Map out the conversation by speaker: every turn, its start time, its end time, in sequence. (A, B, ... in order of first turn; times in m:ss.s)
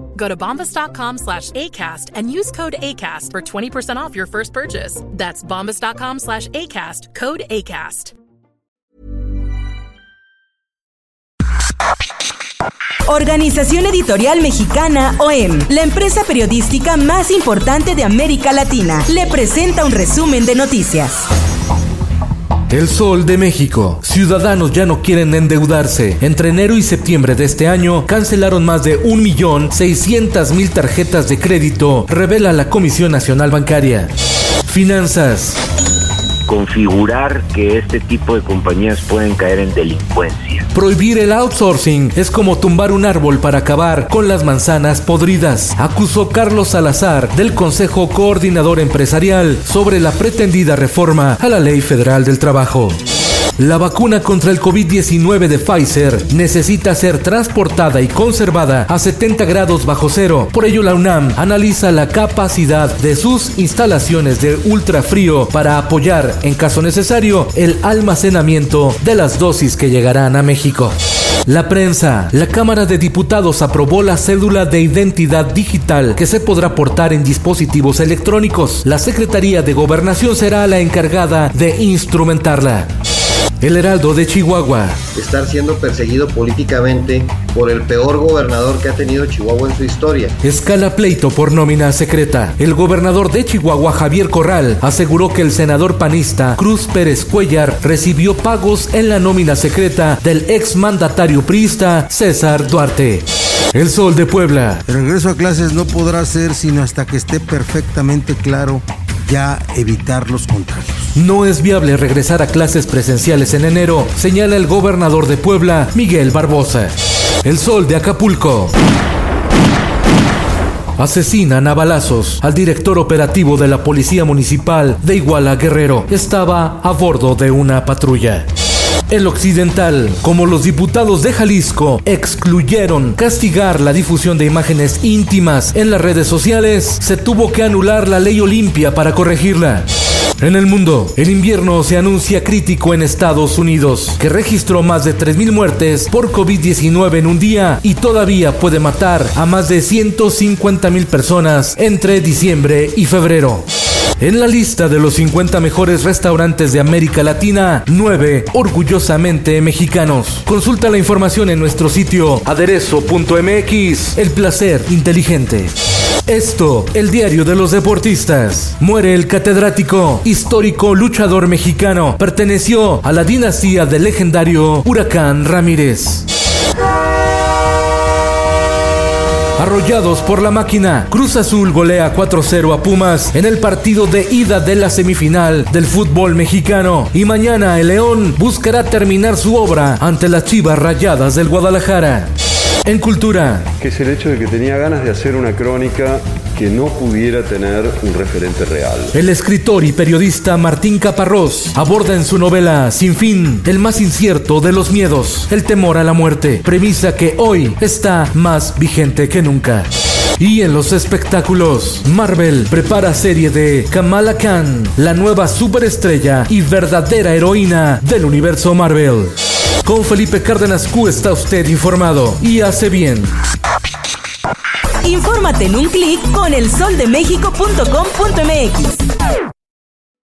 0:00.1-0:08.1 A
0:13.1-0:21.3 B
0:22.7-0:34.1 C
0:34.7-0:35.6 C
0:36.5-0:40.7 D
0:40.7-0:53.0 C
0:53.6-1:22.9 C
1:23.6-1:25.0 C
1:25.2-1:30.3 E
1:30.4-1:44.8 C
1:44.9-1:51.1 F
1:51.1-1:58.7 C
2:01.0-2:08.5 C
2:09.1-2:19.9 C
2:20.4-2:33.6 C
2:34.2-2:45.7 C
2:46.3-2:56.3 C
2:59.6-3:12.3 C
3:12.8-3:13.7 C
3:13.8-3:19.1 G
3:19.1-3:29.9 C
3:30.4-3:43.3 C
3:45.0-3:49.0 B